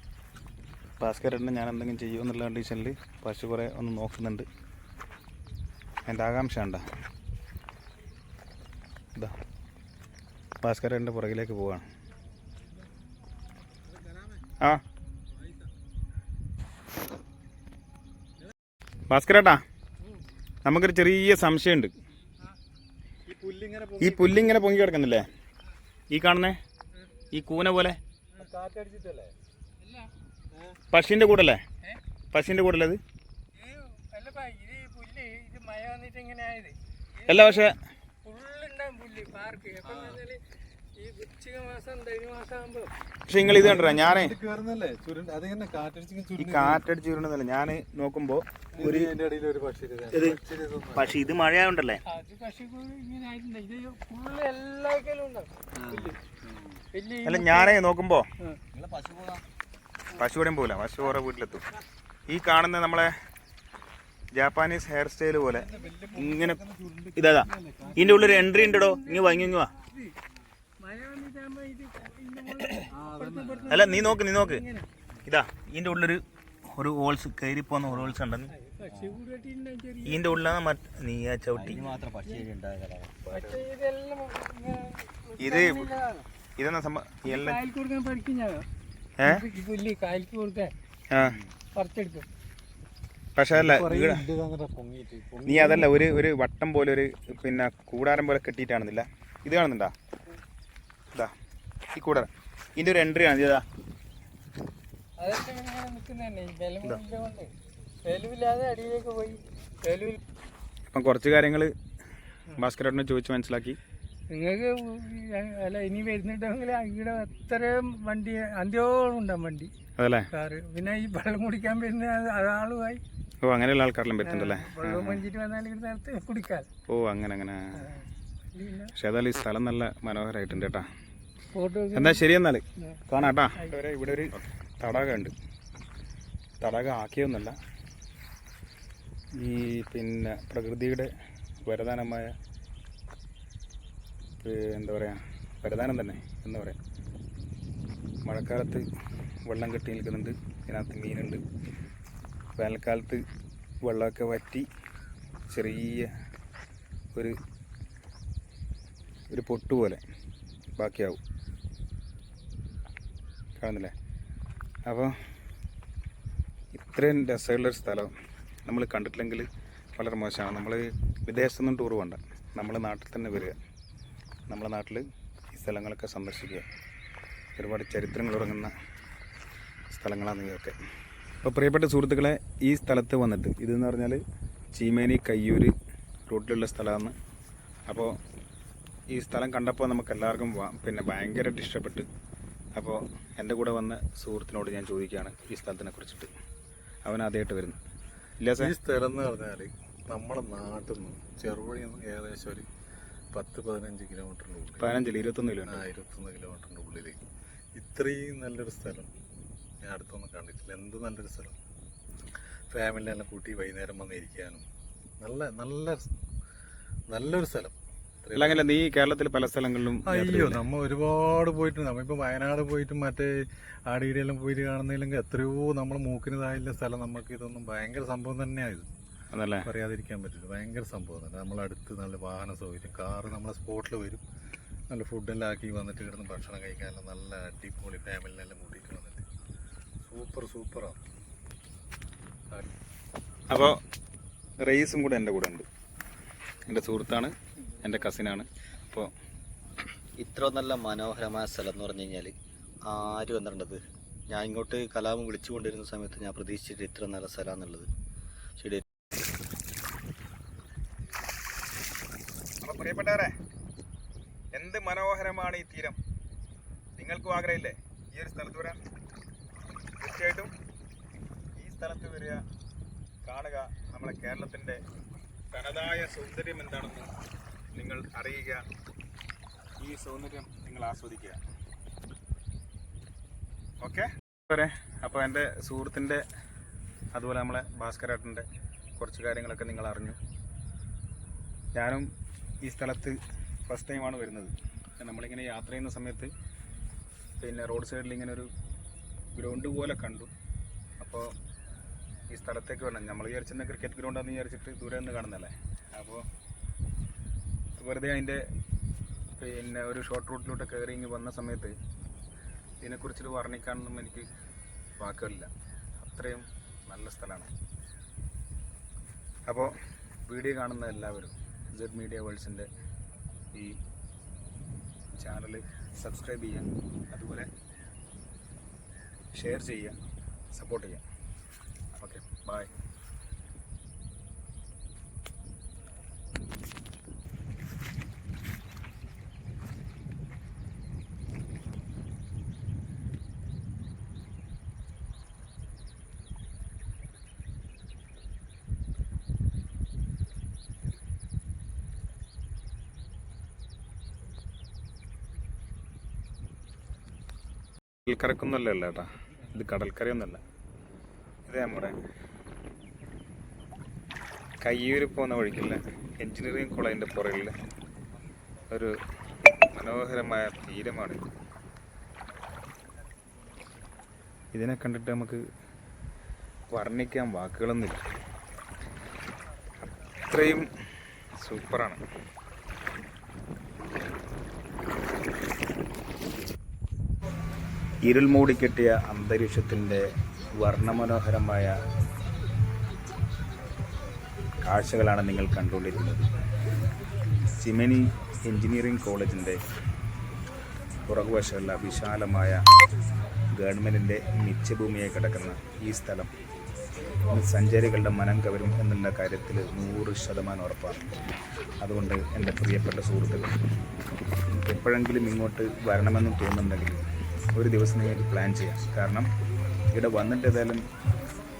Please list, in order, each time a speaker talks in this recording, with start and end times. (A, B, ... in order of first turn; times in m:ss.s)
0:01.0-0:04.5 A
0:06.0-0:06.8 A
0:10.6-0:11.8 A
0:14.0-0:14.2 B
0:19.1-0:19.6 A
0:20.6-0:21.9 A
0:23.2-0:24.5 B
0:24.0-0:25.2 A
0:26.1-0:26.6 A
0:27.3-0:28.0 A
0:28.3-0:29.3 B
0:29.8-0:30.1 C
0:30.5-0:30.8 B
0:30.9-0:31.6 A
0:32.3-0:33.0 A
0:33.5-0:37.7 C
0:37.3-0:37.7 A
0:38.2-0:40.4 C
0:39.8-0:40.2 B
0:41.0-0:42.9 C
0:43.3-0:44.3 A
0:43.4-0:46.8 B
0:46.4-0:49.1 A
0:48.7-0:51.2 B
0:50.1-0:50.4 A
0:50.9-0:52.0 A
0:52.1-0:55.5 C
0:55.8-0:56.1 B
0:56.9-0:57.8 C
0:57.2-0:58.3 A
0:58.7-0:59.4 D
1:00.1-1:01.6 A
1:02.3-1:03.1 A
1:04.3-1:06.6 A
1:05.5-1:08.3 B
1:07.1-1:09.7 A
1:07.9-1:10.1 C
1:10.8-1:14.9 C
1:12.9-1:14.0 B
1:13.7-1:14.6 A
1:15.2-1:18.5 A
1:18.5-1:20.4 C
1:18.9-1:19.2 D
1:20.0-1:21.8 A
1:21.5-1:23.6 D
1:21.8-1:22.4 C
1:23.3-1:26.3 C
1:25.4-1:25.9 A
1:26.6-1:27.6 A
1:27.2-1:28.7 C
1:29.2-1:29.4 A
1:29.2-1:30.7 C
1:31.1-1:31.4 A
1:31.2-1:31.5 D
1:31.7-1:32.3 C
1:33.4-1:34.2 A
1:33.5-1:35.9 B
1:35.4-1:39.9 A
1:41.9-1:43.6 A
1:45.2-1:47.5 C
1:48.0-1:50.2 C
1:50.9-1:51.7 A
1:52.5-1:53.8 A
1:54.3-1:59.7 C
2:00.0-2:00.3 A
2:00.3-2:03.0 C
2:03.4-2:05.2 A
2:04.2-2:06.7 C
2:06.9-2:07.9 A
2:07.8-2:08.0 C
2:08.6-2:08.9 C
2:08.9-2:10.9 A
2:11.5-2:12.2 C
2:11.9-2:15.3 A
2:12.8-2:13.0 C
2:16.6-2:17.6 A
2:19.3-2:21.1 A
2:21.6-2:22.3 A
2:24.4-2:26.8 A
2:28.2-2:28.8 A
2:29.4-2:31.4 A
2:32.6-2:33.2 A
2:33.8-2:34.7 A
2:35.5-2:36.1 A
2:39.3-2:40.0 A
2:40.8-2:41.2 A
2:43.6-2:43.9 A
2:44.8-2:45.2 A
2:46.7-2:48.1 A
2:48.6-2:53.6 A
2:54.5-2:56.6 A
2:57.6-2:58.7 A
2:59.9-3:00.8 A
3:01.4-3:04.2 A
3:04.7-3:05.7 A
3:06.3-3:07.1 A
3:07.9-3:08.2 A
3:09.1-3:12.1 A
3:12.7-3:16.3 A
3:17.0-3:17.8 A
3:18.4-3:18.7 A
3:18.6-3:22.6 B
3:23.3-3:25.0 B
3:24.8-3:25.9 A
3:25.7-3:27.2 B
3:27.8-3:29.1 B
3:29.8-3:31.5 B
3:32.7-3:34.6 B
3:35.2-3:36.1 B
3:37.1-3:38.7 B
3:38.3-3:40.6 A
3:40.0-3:48.9 B
3:49.3-3:49.7 A
3:49.6-3:54.2 B
3:54.9-3:59.2 B
4:00.0-4:01.0 B
4:03.5-4:03.8 A
4:04.6-4:05.6 A
4:06.6-4:09.1 A
4:10.2-4:12.3 D
4:12.8-4:17.9 D
4:22.6-4:23.3 A
4:24.5-4:26.0 A
4:27.0-4:28.8 A
4:30.0-4:30.5 A
4:31.6-4:32.4 A
4:33.2-4:34.8 A
4:35.5-4:37.1 A
4:37.7-4:38.6 A
4:39.8-4:41.4 A
4:43.8-4:46.2 A
4:47.1-4:48.4 A
4:49.0-4:50.2 A
4:51.7-4:52.1 A
4:52.6-4:56.3 A
4:57.4-4:58.5 A
4:59.4-5:00.3 A
5:01.0-5:01.3 A
5:02.3-5:06.2 A
5:07.8-5:08.4 A
5:09.4-5:11.7 A
5:12.8-5:14.3 A
5:15.0-5:17.5 A
5:19.5-5:19.7 A
5:20.3-5:22.7 A
5:23.5-5:23.8 A
5:25.2-5:27.5 A
5:29.3-5:30.0 A
5:30.5-5:31.0 A
5:32.0-5:32.7 A
5:58.0-6:00.4 A
6:01.5-6:02.0 A
6:04.6-6:07.5 A
6:08.7-6:08.9 A
6:09.7-6:11.3 A
6:14.5-6:15.4 A
6:16.7-6:18.0 A
6:20.2-6:20.7 A
6:21.4-6:22.0 A
6:28.0-6:30.1 A
6:30.6-6:31.8 A
6:34.6-6:36.3 A
6:37.6-6:39.6 A
6:41.1-6:42.6 A
6:43.5-6:46.3 A
6:47.3-6:51.0 A
6:51.8-6:53.6 A
6:54.5-6:59.3 A
6:59.9-7:00.8 A